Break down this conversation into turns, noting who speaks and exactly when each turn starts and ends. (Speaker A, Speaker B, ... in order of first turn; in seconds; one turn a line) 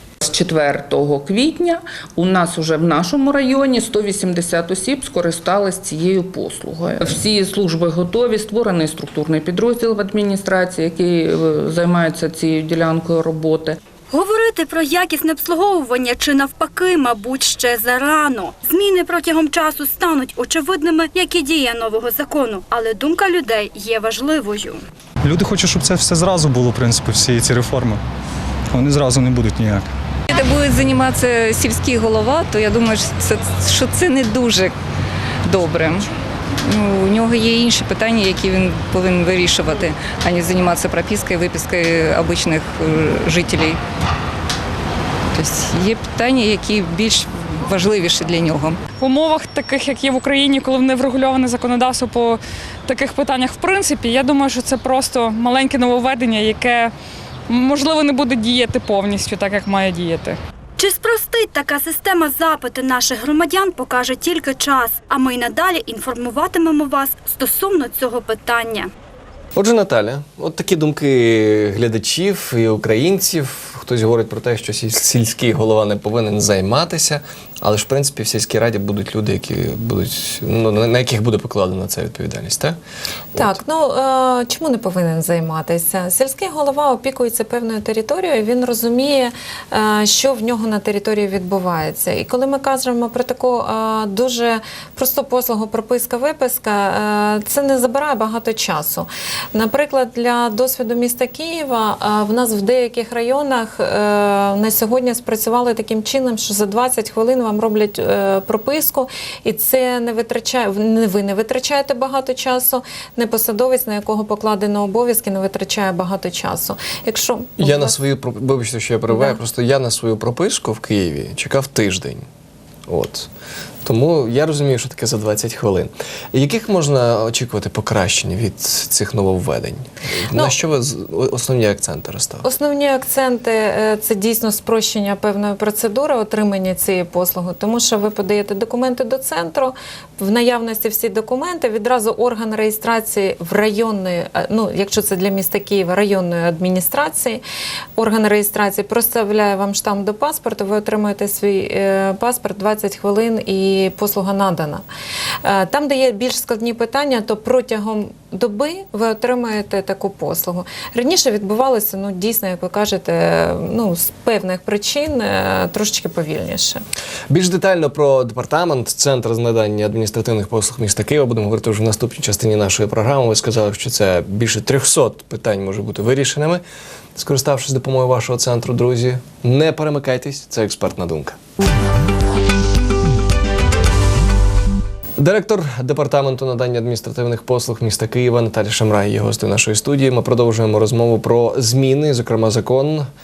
Speaker A: 0.2-13.8
Speaker B: 14.1-24.8
Speaker C: 25.2-28.0
Speaker C: 28.7-29.8
Speaker D: 30.3-34.7
Speaker D: 35.4-36.0
Speaker D: 36.7-43.8
Speaker D: 45.3-48.8
Speaker E: 49.0-56.9
Speaker E: 57.5-60.4
Speaker B: 60.8-68.9
Speaker F: 69.5-82.8
Speaker G: 83.3-117.9
Speaker F: 117.6-122.2
Speaker G: 119.1-119.4
Speaker F: 122.9-123.3
Speaker F: 123.8-132.4
Speaker G: 132.4-147.4
Speaker G: 148.0-154.8
Speaker G: 155.4-166.8
Speaker F: 167.3-176.6
Speaker F: 177.2-181.4
Speaker F: 185.2-193.1